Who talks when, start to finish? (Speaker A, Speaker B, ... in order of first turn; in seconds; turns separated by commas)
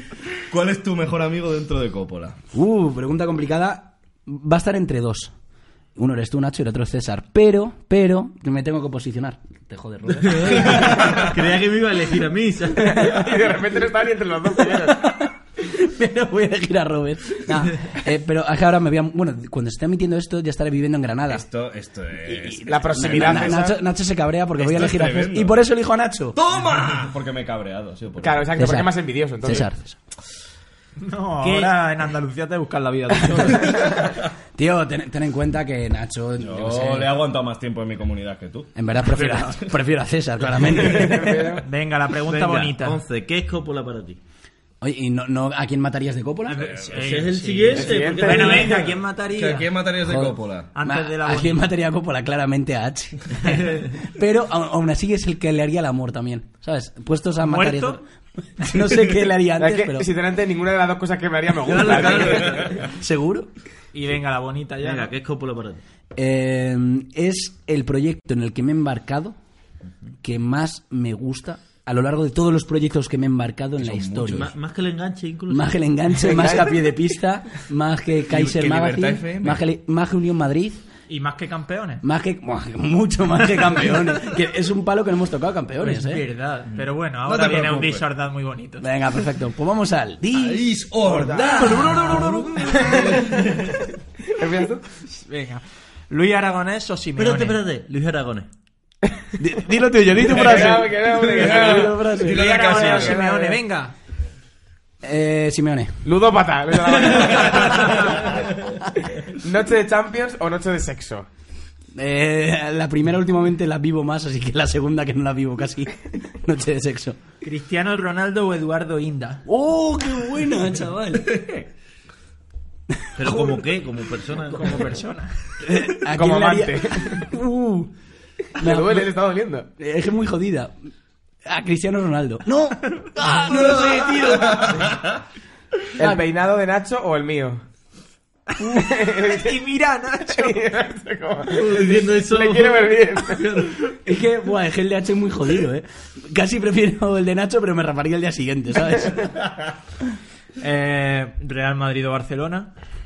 Speaker A: 0.5-2.4, Speaker B: 2.5-5.3, Speaker B: 6.0-11.2, Speaker C: 10.2-13.3, Speaker A: 10.7-11.3, Speaker D: 12.8-15.0, Speaker B: 14.7-21.4, Speaker A: 21.3-23.5, Speaker B: 22.3-26.4, Speaker D: 22.6-23.8, Speaker A: 24.6-25.6, Speaker A: 26.4-28.6, Speaker D: 28.2-29.7, Speaker B: 28.6-30.0, Speaker E: 31.0-33.9, Speaker A: 33.7-34.2, Speaker B: 34.5-37.1, Speaker A: 36.4-38.7, Speaker B: 38.8-41.6, Speaker D: 40.9-41.6, Speaker E: 41.6-43.0, Speaker C: 42.2-44.2, Speaker B: 44.8-46.6, Speaker E: 46.5-49.7, Speaker A: 46.5-47.1, Speaker C: 47.0-48.8, Speaker D: 47.7-48.8, Speaker A: 48.6-50.7, Speaker B: 50.0-58.0, Speaker E: 50.7-51.6, Speaker E: 57.4-58.0, Speaker B: 58.6-60.1, Speaker D: 59.6-62.7, Speaker C: 61.7-62.8, Speaker A: 62.2-62.9, Speaker B: 62.9-63.5, Speaker E: 63.9-65.1, Speaker C: 64.8-65.8, Speaker B: 66.2-69.4, Speaker B: 70.2-74.5, Speaker A: 73.8-74.5, Speaker C: 74.3-75.7, Speaker B: 75.5-80.8, Speaker D: 76.2-76.8, Speaker A: 78.3-79.6, Speaker E: 81.1-82.0, Speaker B: 82.0-86.2, Speaker E: 85.8-88.9, Speaker A: 86.7-88.0, Speaker B: 88.8-90.6, Speaker A: 90.3-93.8, Speaker D: 91.0-91.8, Speaker B: 91.5-93.2, Speaker E: 92.2-92.6, Speaker D: 92.7-93.2, Speaker D: 94.3-94.8, Speaker E: 95.1-97.6, Speaker C: 97.2-98.5, Speaker B: 99.4-102.5, Speaker A: 100.3-103.2, Speaker D: 100.3-103.6, Speaker E: 102.3-103.9, Speaker B: 105.0-106.0, Speaker D: 106.0-108.4, Speaker B: 106.9-107.7, Speaker A: 107.5-108.2, Speaker D: 109.3-111.3, Speaker B: 111.9-117.2, Speaker E: 117.4-119.4, Speaker B: 119.5-121.4, Speaker A: 121.2-121.7, Speaker B: 122.9-123.6, Speaker C: 123.2-125.0, Speaker E: 124.5-125.3, Speaker B: 125.6-127.9, Speaker D: 126.1-127.2, Speaker B: 128.6-129.1, Speaker D: 128.6-129.7, Speaker B: 129.8-130.7, Speaker B: 131.4-134.4, Speaker E: 133.0-134.9, Speaker A: 133.5-135.0, Speaker D: 136.0-137.6, Speaker B: 136.0-136.2, Speaker E: 138.6-140.6, Speaker D: 138.7-139.6, Speaker D: 140.3-143.4, Speaker C: 141.5-143.8, Speaker B: 144.0-149.4, Speaker E: 150.6-152.7